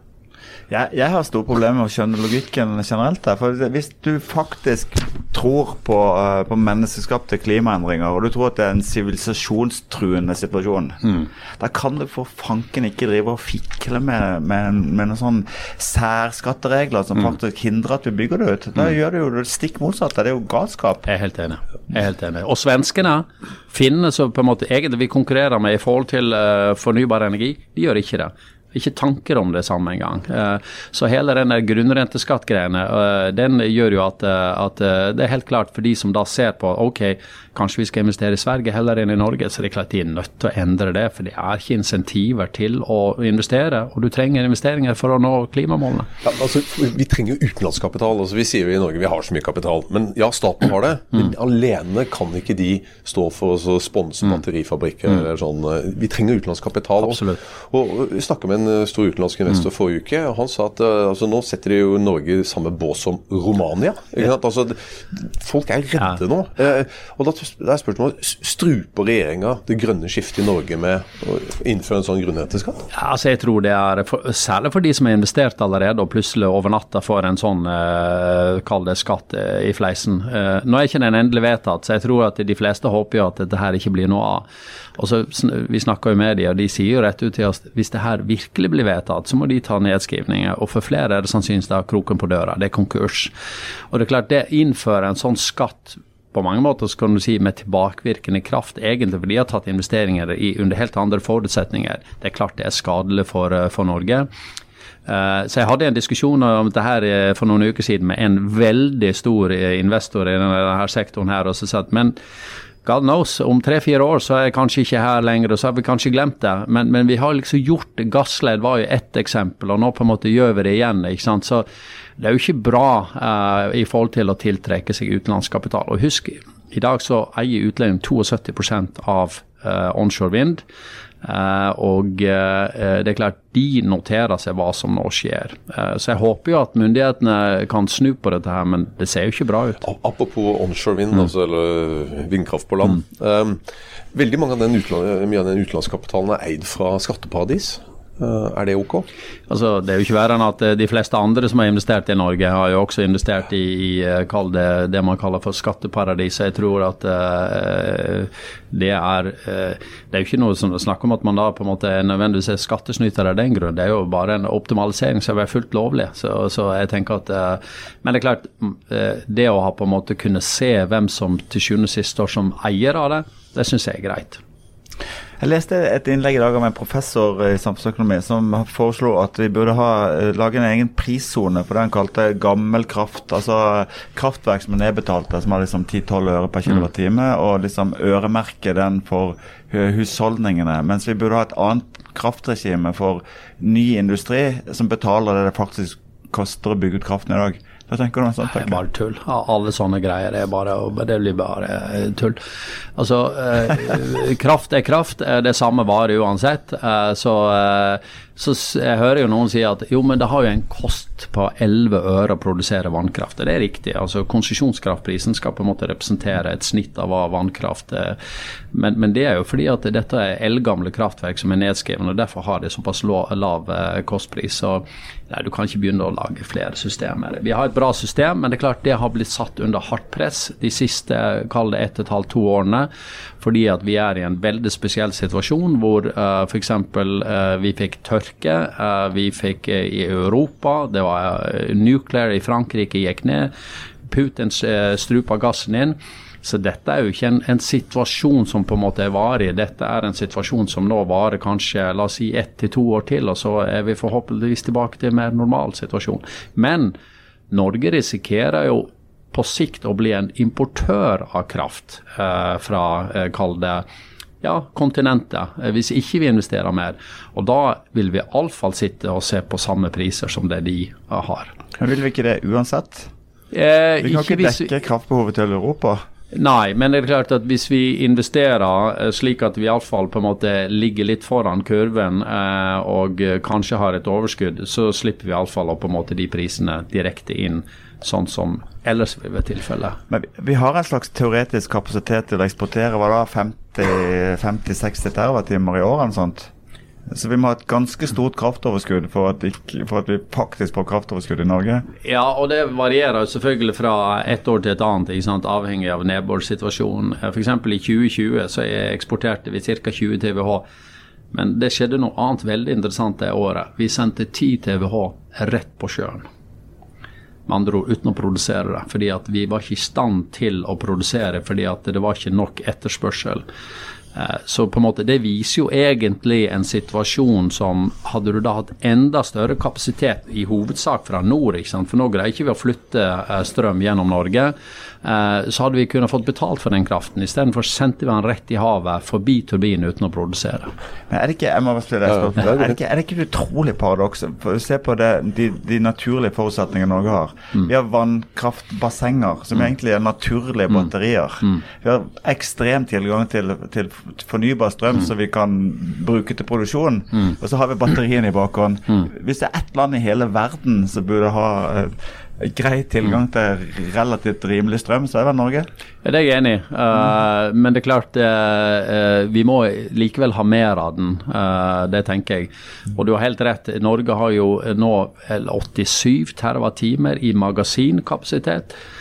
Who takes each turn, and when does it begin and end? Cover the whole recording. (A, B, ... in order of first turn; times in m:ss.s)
0:00.7-0:21.1 A
0:21.0-0:46.1 B
0:46.2-1:12.9 C
0:57.0-0:57.4 B
1:12.9-1:24.4 B
1:25.0-1:33.3 B
1:33.9-1:44.3 B
1:45.0-1:52.1 B
1:52.8-2:01.6 B
2:02.2-2:10.6 B
2:11.2-2:19.8 B
2:19.8-2:23.6 C
2:24.1-2:29.1 C
2:29.5-2:54.4 B
2:55.4-3:18.8 A
3:18.5-3:22.4 B
3:23.0-3:38.2 B
3:38.7-3:52.9 B
3:53.4-4:03.5 B
4:04.1-4:16.9 B
4:17.5-4:23.8 B
4:24.4-4:31.5 B
4:31.8-4:33.1 A
4:33.5-4:34.7 B
4:34.0-4:36.0 A
4:36.3-4:50.0 B
4:50.1-4:56.5 A
4:57.1-5:01.8 A
5:02.0-5:10.6 B
5:11.3-5:16.2 B
5:17.5-5:23.4 B
5:24.1-5:40.7 B
5:41.1-6:05.7 A
5:42.1-5:42.8 C
6:06.0-6:18.7 B